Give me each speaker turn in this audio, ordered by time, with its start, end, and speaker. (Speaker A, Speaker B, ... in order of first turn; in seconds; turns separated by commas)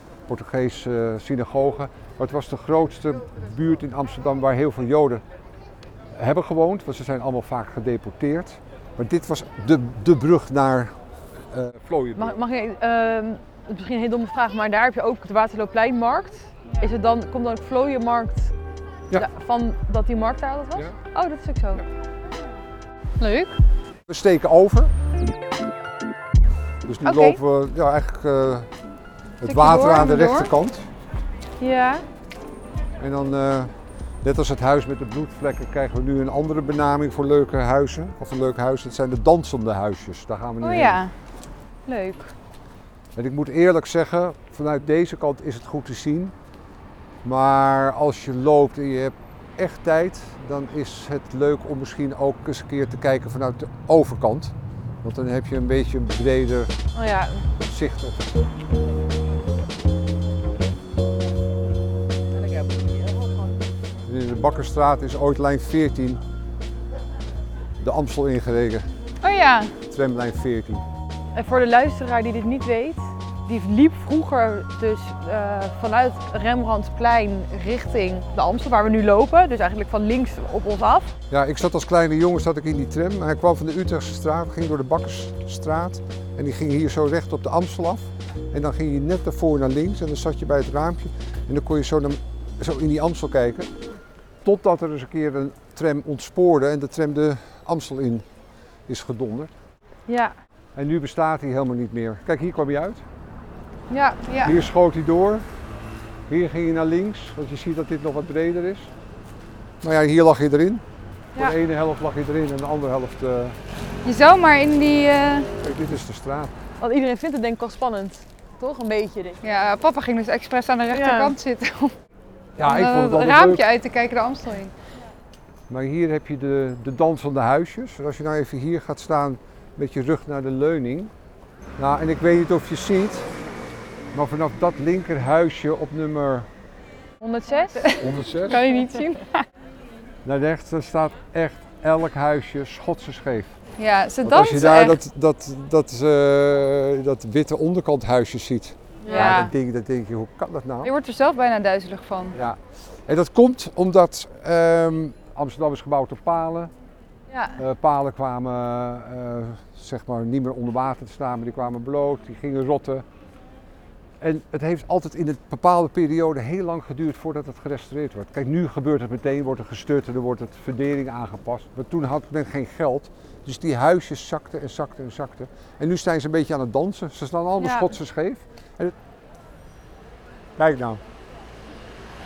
Speaker A: 0.3-5.2, Speaker A: 6.1-10.9, Speaker A: 11.5-12.3, Speaker B: 12.2-18.5, Speaker B: 19.1-21.8, Speaker C: 23.2-23.5, Speaker A: 24.1-24.9, Speaker A: 26.9-28.7, Speaker C: 27.0-27.4, Speaker A: 29.4-30.9, Speaker C: 29.5-30.5, Speaker B: 31.6-32.0, Speaker A: 33.0-33.7, Speaker A: 34.2-41.0, Speaker C: 40.6-41.1, Speaker B: 41.9-42.3, Speaker A: 43.2-46.3, Speaker A: 47.2-56.7, Speaker B: 56.9-57.5, Speaker A: 57.6-58.3, Speaker A: 64.0-66.2, Speaker A: 67.8-68.9, Speaker C: 69.2-69.8, Speaker A: 69.9-70.8, Speaker B: 71.3-81.1, Speaker A: 81.3-93.7, Speaker A: 94.4-98.2, Speaker A: 98.9-99.5, Speaker B: 100.1-100.3, Speaker A: 100.8-103.0, Speaker B: 103.9-104.3, Speaker C: 104.3-104.6, Speaker A: 104.4-105.5, Speaker A: 106.3-108.9, Speaker A: 109.8-110.8, Speaker A: 111.4-113.6, Speaker C: 114.0-115.5, Speaker A: 115.6-116.5, Speaker B: 116.8-119.4, Speaker C: 119.4-122.0, Speaker B: 120.9-121.3, Speaker A: 122.6-123.7, Speaker C: 122.6-124.7, Speaker A: 125.7-131.1, Speaker A: 131.8-133.3, Speaker A: 134.1-136.5, Speaker B: 137.2-137.9, Speaker C: 137.8-139.4, Speaker A: 138.0-138.6, Speaker A: 140.2-143.6, Speaker C: 143.8-145.0, Speaker A: 144.2-150.9, Speaker B: 149.0-149.5, Speaker C: 149.1-149.5, Speaker C: 150.8-152.4, Speaker A: 152.3-156.7, Speaker B: 157.3-157.6, Speaker A: 157.6-163.1, Speaker A: 164.2-178.9, Speaker B: 177.6-177.9, Speaker A: 180.6-181.0